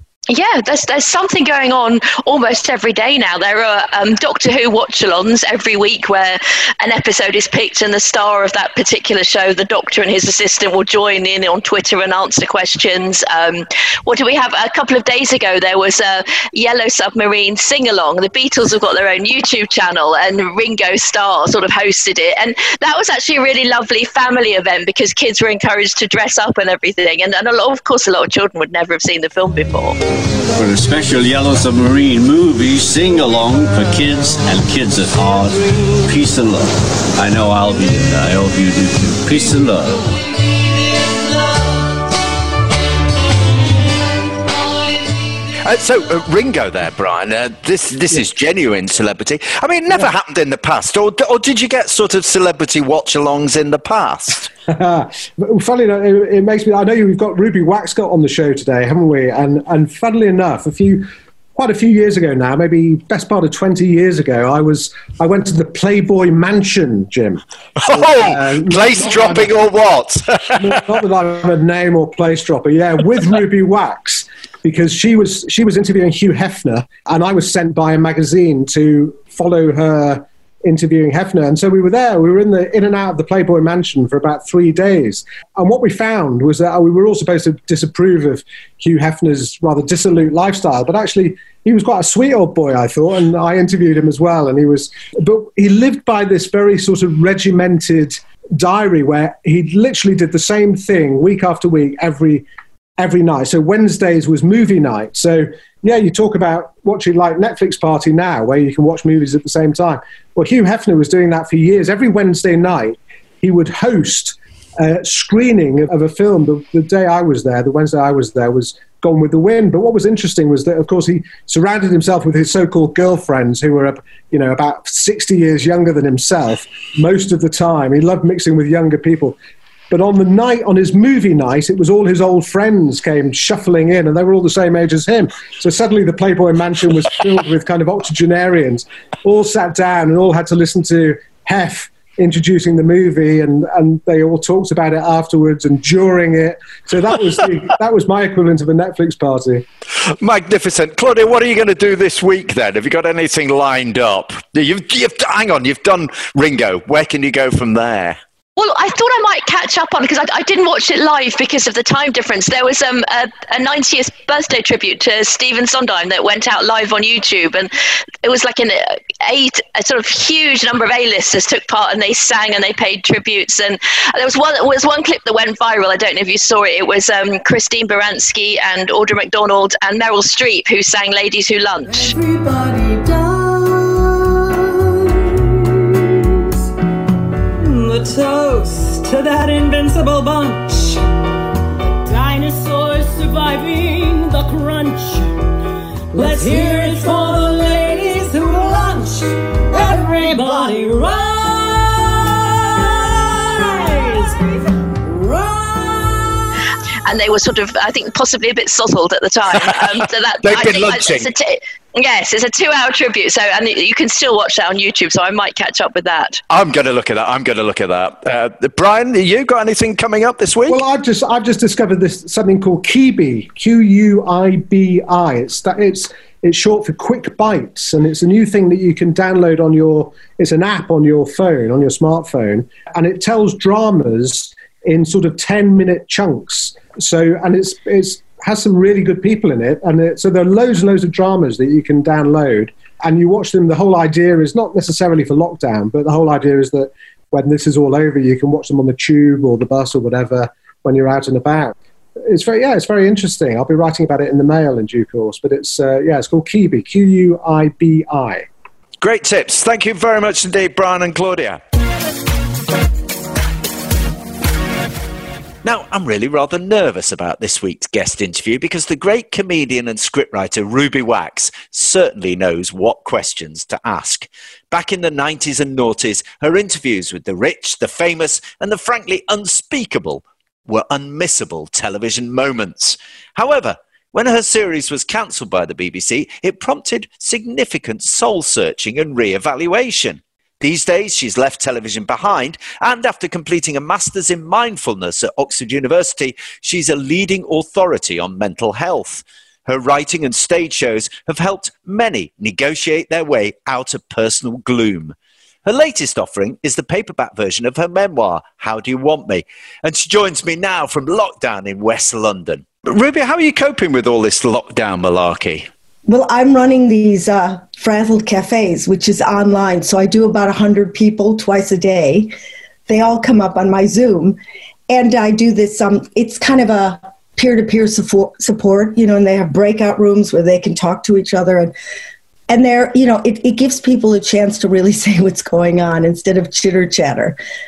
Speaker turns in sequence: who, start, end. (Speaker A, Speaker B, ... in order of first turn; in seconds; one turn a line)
Speaker A: 0.3-30.0
Speaker B: 30.5-40.1
Speaker C: 45.6-54.5
Speaker D: 54.7-69.6
Speaker C: 67.8-70.6
Speaker D: 70.6-102.4
Speaker D: 103.0-129.4
Speaker D: 129.9-149.6
Speaker C: 150.2-158.2
Speaker A: 158.6-167.7
Speaker A: 168.2-182.1
Speaker E: 182.0-184.2
Speaker E: 187.6-191.0
Speaker E: 191.9-195.4
Speaker E: 196.1-204.5
Speaker E: 205.0-206.6
Speaker A: 207.1-216.4
Speaker C: 210.4-211.3
Speaker C: 216.5-220.8
Speaker D: 220.7-258.4
Speaker C: 259.0-261.6
Speaker C: 265.6-315.7
Speaker F: 316.1-322.3
Speaker F: 322.9-324.4
Speaker F: 324.9-331.7
Speaker F: 332.5-337.4